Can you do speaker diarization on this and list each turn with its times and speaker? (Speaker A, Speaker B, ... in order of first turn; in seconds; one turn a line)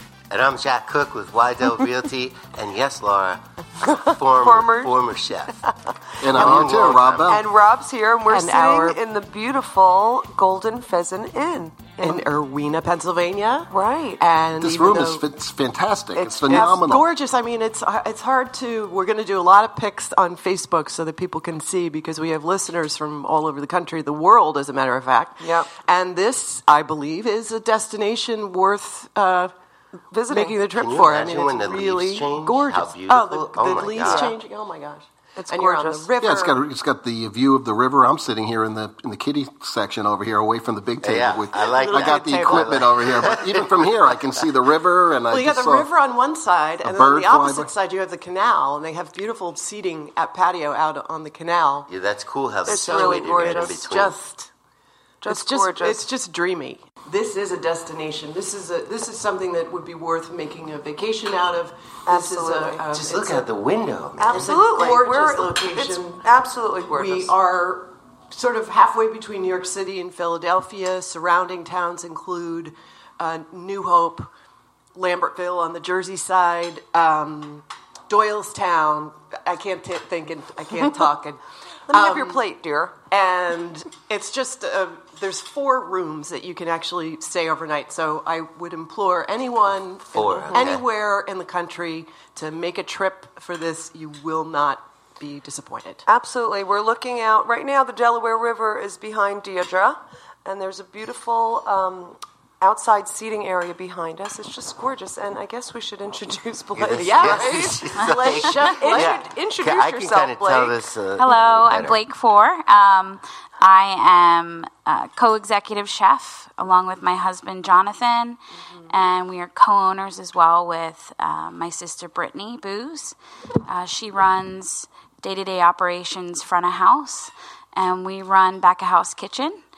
Speaker A: 0.3-5.6
Speaker B: 4.4-4.9
Speaker C: 6.2-7.4
Speaker A: 6.3-7.4
Speaker D: 6.3-7.1
Speaker B: 7.3-12.3
Speaker D: 8.3-9.0
Speaker D: 12.0-15.2
Speaker B: 13.7-14.2
Speaker C: 14.6-17.1
Speaker B: 16.1-16.9
Speaker D: 16.5-29.5
Speaker B: 25.4-25.7
Speaker B: 30.1-30.7
Speaker D: 30.3-36.6
Speaker A: 30.8-34.4
Speaker B: 34.0-34.3
Speaker B: 35.4-36.1
Speaker C: 36.2-45.9
Speaker A: 41.0-44.1
Speaker D: 41.6-43.0
Speaker D: 45.3-51.9
Speaker C: 46.8-47.7
Speaker A: 51.9-54.1
Speaker B: 52.6-53.8
Speaker D: 52.7-54.5
Speaker B: 55.2-56.0
Speaker D: 55.2-63.5
Speaker B: 62.1-62.8
Speaker A: 62.9-64.5
Speaker B: 64.2-67.3
Speaker D: 64.3-66.2
Speaker D: 66.9-74.3
Speaker D: 75.0-81.4
Speaker B: 81.9-83.0
Speaker D: 81.9-96.0
Speaker A: 90.1-90.8
Speaker B: 96.1-110.8
Speaker A: 106.8-112.0
Speaker D: 106.9-109.2
Speaker E: 111.2-129.6